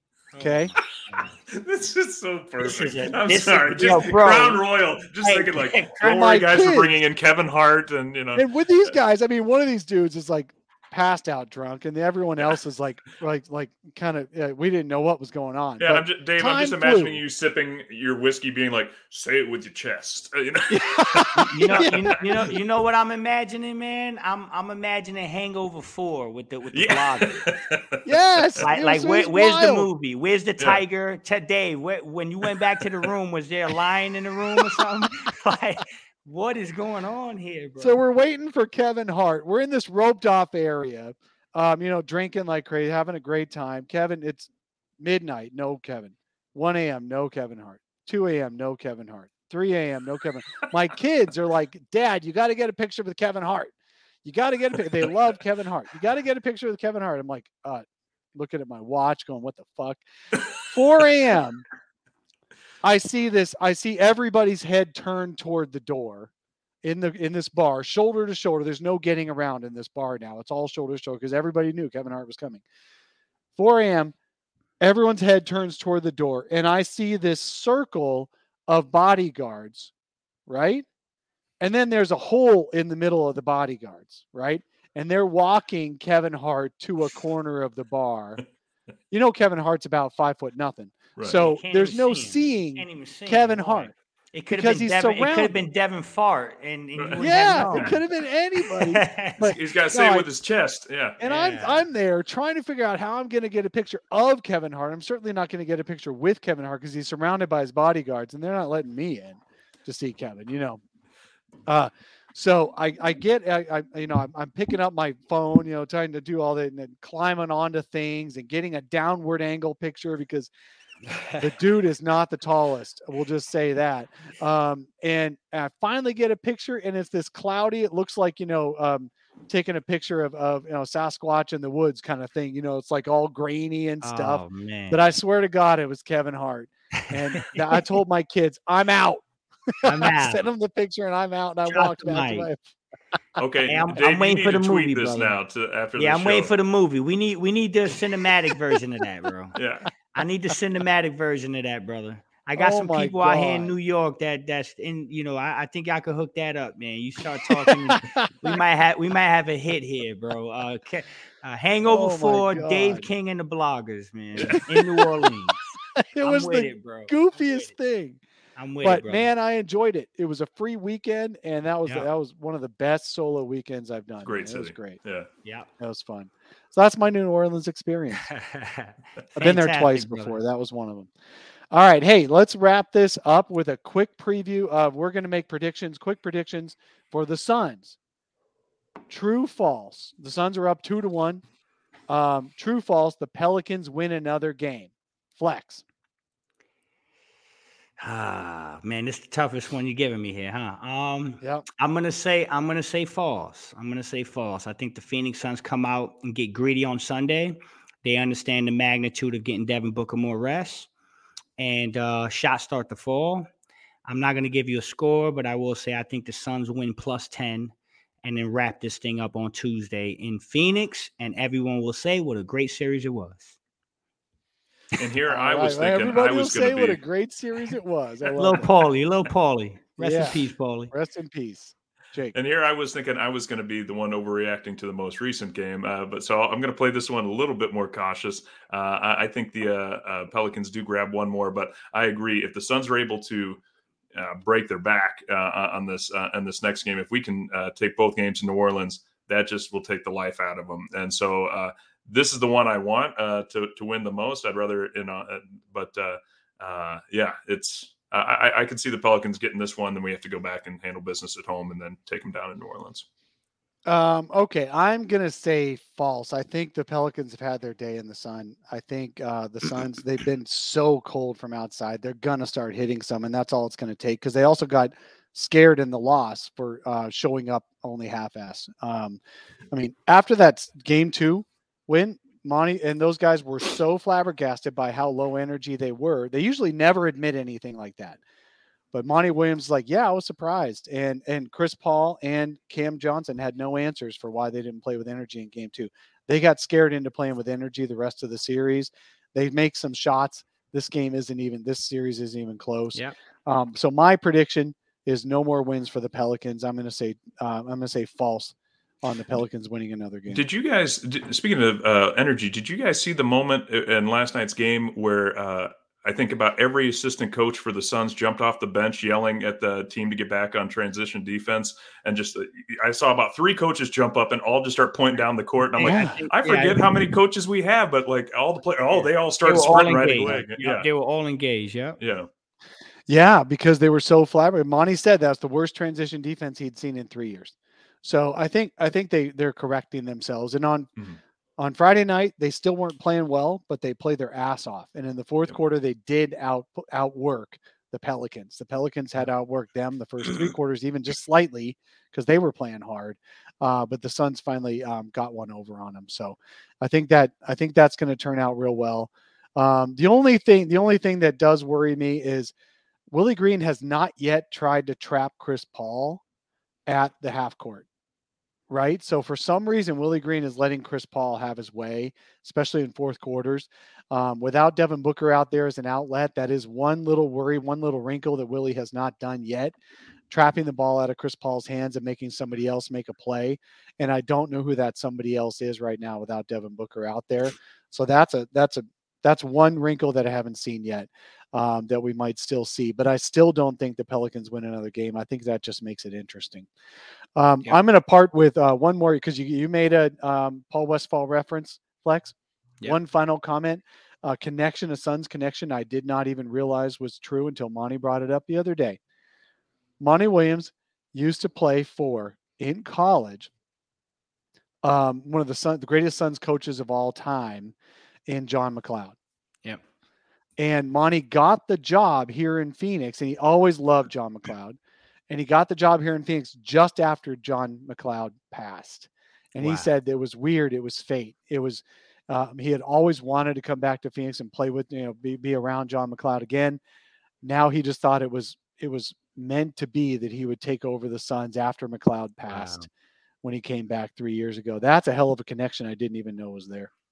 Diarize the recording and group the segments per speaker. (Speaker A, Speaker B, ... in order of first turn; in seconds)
Speaker A: 0.3-1.4, 2.6-4.6, 5.2-6.0, 21.4-27.5, 28.6-38.0, 91.3-98.0, 98.9-99.4, 101.2-101.8, 121.1-121.4, 134.0-135.1, 137.3-137.7, 139.8-140.4, 141.7-142.5, 143.7-145.3, 146.0-149.6, 150.1-165.6, 166.2-167.7, 168.6-169.3, 175.4-175.7, 178.3-180.4, 198.0-210.9, 211.6-213.5, 214.1-223.6, 228.3-230.9, 325.8-326.9, 328.9-332.0, 429.6-429.9, 442.5-442.9
Speaker B: 0.4-0.7, 6.0-6.9, 8.3-17.2, 20.7-22.2, 28.1-29.9, 37.8-44.5, 45.0-53.7, 54.2-60.0, 60.6-61.7, 62.8-66.3, 66.8-72.6, 73.6-74.1, 74.8-79.9, 80.5-80.9, 81.6-88.4, 89.1-93.9, 94.5-95.5, 97.2-100.3, 101.2-110.8, 111.7-120.5, 121.3-142.7, 152.6-153.7, 157.7-158.2, 161.9-163.1, 164.7-165.3, 166.0-168.2, 168.8-175.0, 175.8-178.3, 179.4-181.1, 181.7-188.0, 189.1-191.4, 192.1-195.8, 225.3-228.7, 230.0-232.3, 263.9-279.2, 279.7-288.2, 288.9-310.4, 325.8-326.2, 333.1-340.9, 341.6-362.5, 363.1-366.2, 366.9-367.9, 368.7-379.8, 380.3-396.7, 397.4-409.0, 410.0-413.5, 414.8-417.8, 418.3-419.2, 420.6-424.8, 425.3-436.8, 437.4-442.9, 443.4-446.9
Speaker C: 1.5-8.9, 15.8-22.1, 26.7-28.1, 91.2-91.4, 97.0-98.0, 99.4-101.2, 143.4-146.5, 149.6-149.9, 164.4-164.6, 174.2-175.3, 225.0-227.0, 232.3-243.6, 244.2-263.1, 310.3-330.9, 332.0-332.3